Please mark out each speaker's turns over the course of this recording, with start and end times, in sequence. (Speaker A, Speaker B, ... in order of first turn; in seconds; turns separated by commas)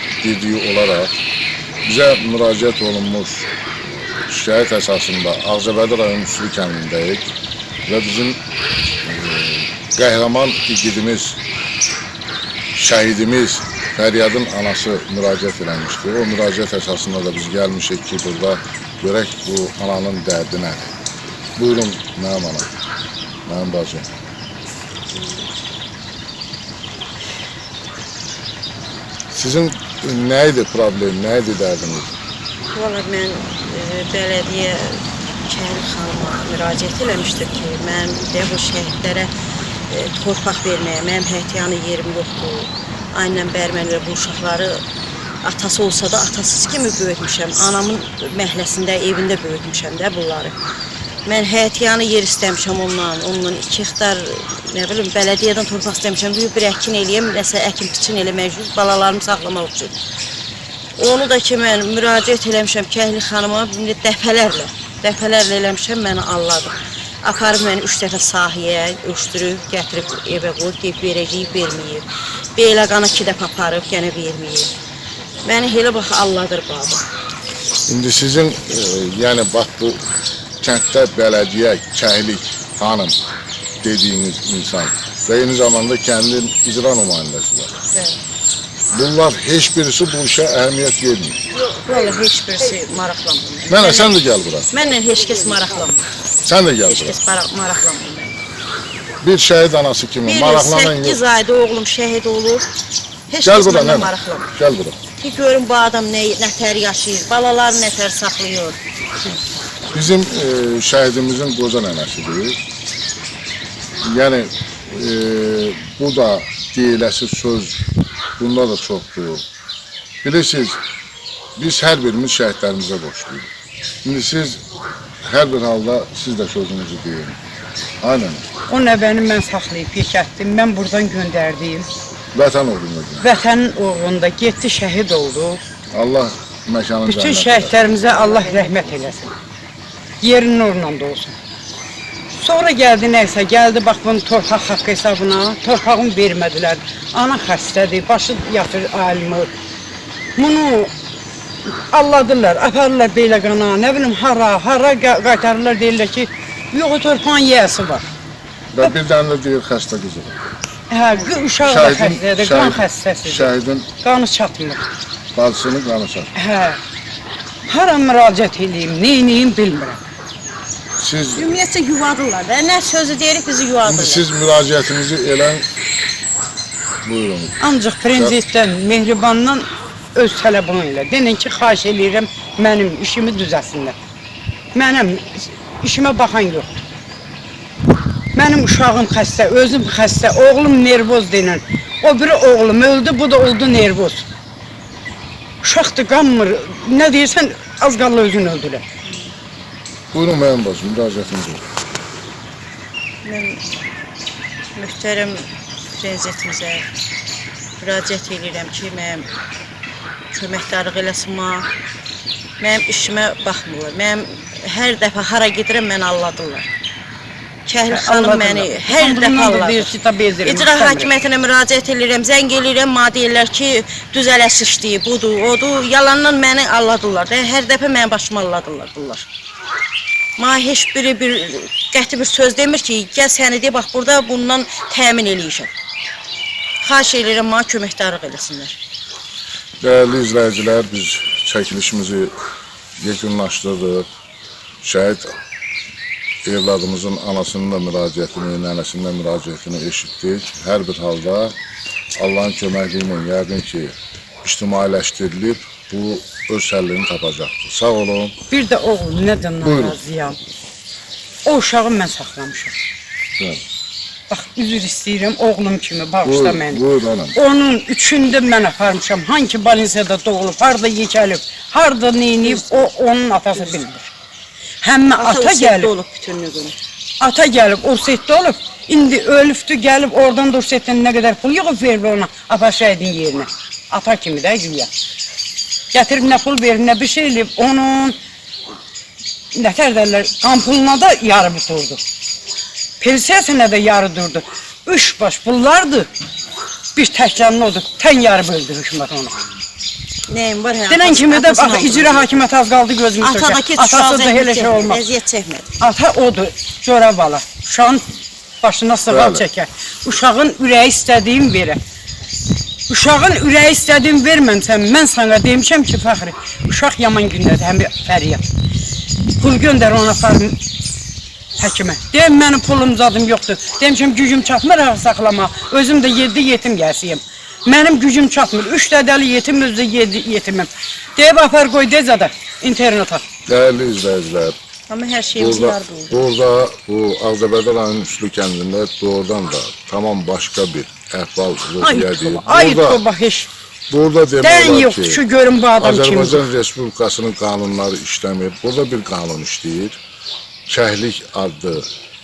Speaker A: 0.2-1.1, Speaker A: 1.9-7.3, Speaker A: 7.9-8.4, Speaker A: 9.1-11.4, Speaker A: 12.8-20.9, Speaker A: 21.6-22.7, Speaker A: 23.5-24.1, Speaker B: 25.2-25.4, Speaker A: 29.3-32.1, Speaker B: 32.7-39.3, Speaker B: 39.9-44.8, Speaker B: 45.4-50.5, Speaker B: 51.3-59.9, Speaker B: 61.0-74.7, Speaker B: 75.4-77.0, Speaker A: 77.9-80.0, Speaker A: 80.6-83.2, Speaker A: 83.8-87.8, Speaker B: 87.9-88.2, Speaker A: 88.9-91.4, Speaker B: 91.7-94.2, Speaker A: 93.7-94.7, Speaker B: 94.7-96.0, Speaker A: 96.5-97.2, Speaker B: 96.8-98.4, Speaker A: 99.2-101.2, Speaker B: 100.2-102.7, Speaker B: 103.3-104.5, Speaker A: 103.4-105.0, Speaker B: 105.2-108.8, Speaker A: 109.9-112.6, Speaker A: 114.0-117.8, Speaker A: 118.4-119.4, Speaker A: 120.2-120.8, Speaker A: 121.6-123.5, Speaker A: 124.0-124.6, Speaker A: 125.2-127.4, Speaker A: 128.0-128.4, Speaker C: 128.7-131.9, Speaker A: 132.3-133.3, Speaker C: 133.2-135.6, Speaker A: 135.9-137.8, Speaker C: 137.1-139.3, Speaker B: 137.8-139.3, Speaker C: 140.2-141.3, Speaker C: 142.3-149.5, Speaker C: 150.4-150.9, Speaker C: 151.7-158.0, Speaker A: 158.7-160.4, Speaker C: 160.9-164.8, Speaker A: 161.6-163.9, Speaker A: 165.3-166.3, Speaker C: 166.4-166.8, Speaker C: 167.7-170.0, Speaker A: 171.0-171.6, Speaker B: 171.4-174.2, Speaker A: 173.9-175.7, Speaker A: 177.0-177.6, Speaker C: 177.6-183.9, Speaker C: 184.8-186.7, Speaker C: 188.3-194.3, Speaker C: 195.6-198.8, Speaker A: 200.1-201.7, Speaker B: 203.2-203.6, Speaker B: 204.8-206.8, Speaker B: 207.8-209.3, Speaker B: 210.3-211.7, Speaker B: 212.6-216.7, Speaker B: 217.7-229.3, Speaker C: 217.9-221.1, Speaker B: 230.4-235.7, Speaker B: 236.8-238.8, Speaker A: 239.8-242.3, Speaker A: 243.0-244.1, Speaker A: 244.8-245.3, Speaker A: 246.4-251.6, Speaker A: 252.2-258.4, Speaker C: 258.5-260.4, Speaker A: 259.6-260.0, Speaker C: 261.4-262.8, Speaker C: 264.3-274.1, Speaker A: 266.2-267.4, Speaker B: 272.4-272.9, Speaker B: 273.6-273.9, Speaker C: 274.8-275.9, Speaker B: 275.1-276.8, Speaker C: 277.2-284.9, Speaker C: 285.9-288.2, Speaker C: 289.5-292.0, Speaker C: 293.0-296.1, Speaker C: 296.9-299.4, Speaker B: 300.3-302.4, Speaker C: 300.9-305.0, Speaker B: 303.2-305.7, Speaker C: 305.8-308.0, Speaker C: 308.6-311.8, Speaker A: 309.1-309.5, Speaker C: 312.9-318.4, Speaker C: 319.4-320.6, Speaker C: 321.6-333.2, Speaker A: 333.5-334.6, Speaker B: 334.9-336.2, Speaker A: 335.4-343.0, Speaker C: 341.8-343.5, Speaker A: 343.9-345.2, Speaker C: 344.4-346.5, Speaker A: 345.8-350.0, Speaker A: 350.7-351.9